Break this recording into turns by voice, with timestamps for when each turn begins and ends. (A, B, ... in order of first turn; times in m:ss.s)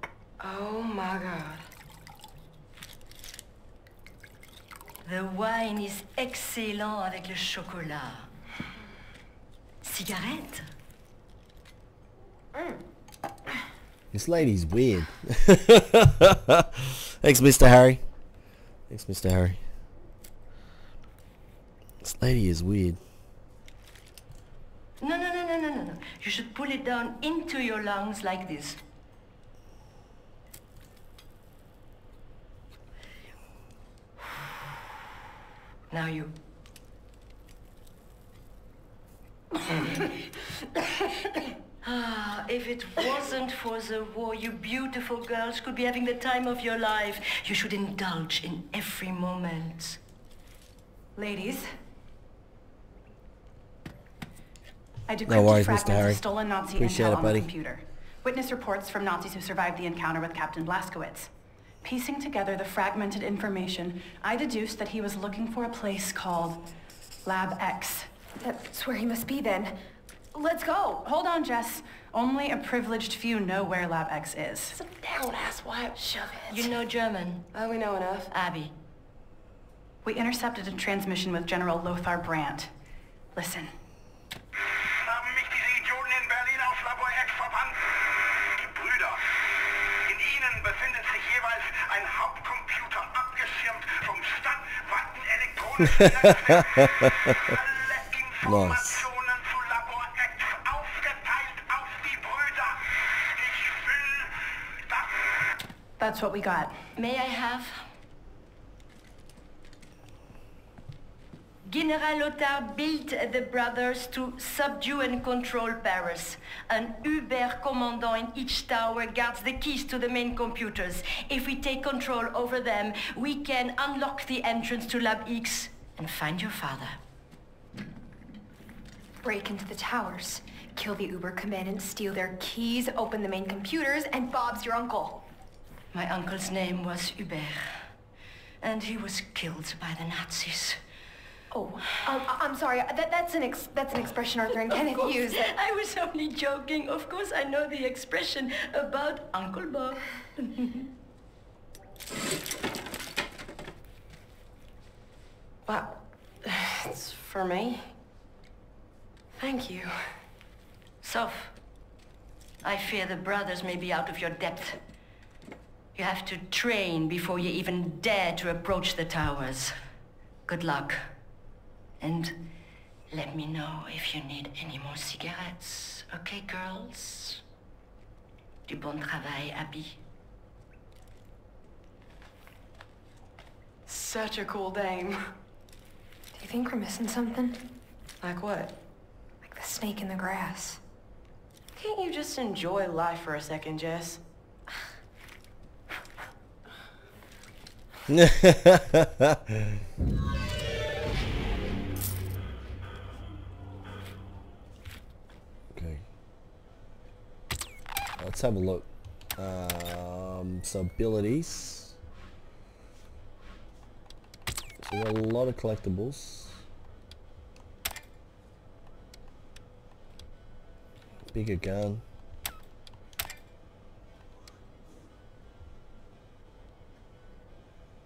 0:00.4-0:01.6 A
0:05.0-0:08.3 B
0:09.8-0:10.7 B
0:14.1-0:18.0 C
0:18.9-0:19.6 C
0:22.0-0:23.0 C
0:25.0-0:28.8 B
0:35.9-0:36.4 B
0:41.8-0:50.0 B
0:51.2-0:51.7 D
0:55.1-1:01.3 D
0:55.2-0:56.2 C
0:56.7-0:57.5 C
1:01.8-1:06.6 D
1:07.2-1:08.1 D
1:08.4-1:09.8 E
1:10.4-1:14.8 D
1:14.8-1:15.2 E
1:14.8-1:16.2 A
1:16.0-1:16.4 E
1:16.5-1:17.5 B
1:17.5-1:18.3 A
1:18.3-1:18.7 B
1:20.0-1:22.7 D
1:23.3-1:23.7 D
1:25.0-1:29.3 F
1:29.9-1:45.1 F
1:35.8-1:37.5 C
1:38.4-1:39.1 C
1:46.0-1:46.8 D
1:47.0-1:47.9 B
1:51.6-2:07.0 B
2:09.2-2:15.2 E
2:15.9-2:17.9 B
2:18.6-2:20.8 B
2:21.5-2:25.5 E
2:24.6-2:30.7 B
2:35.6-2:37.9 A
2:39.4-2:40.2 A
2:41.0-2:41.6 B
2:42.6-2:44.8 B
2:45.9-2:49.8 B
2:50.5-2:51.2 B
2:52.0-2:52.4 B
2:53.1-2:57.4 B
2:58.7-3:00.0 B
3:03.9-3:05.3 A
3:06.3-3:07.6 E
3:08.2-3:08.7 A
3:09.4-3:10.8 E
3:11.7-3:14.2 A
3:18.1-3:19.8 C
3:25.7-3:26.0 C
3:28.2-3:32.0 C
3:34.8-3:36.6 C
3:41.3-3:42.0 C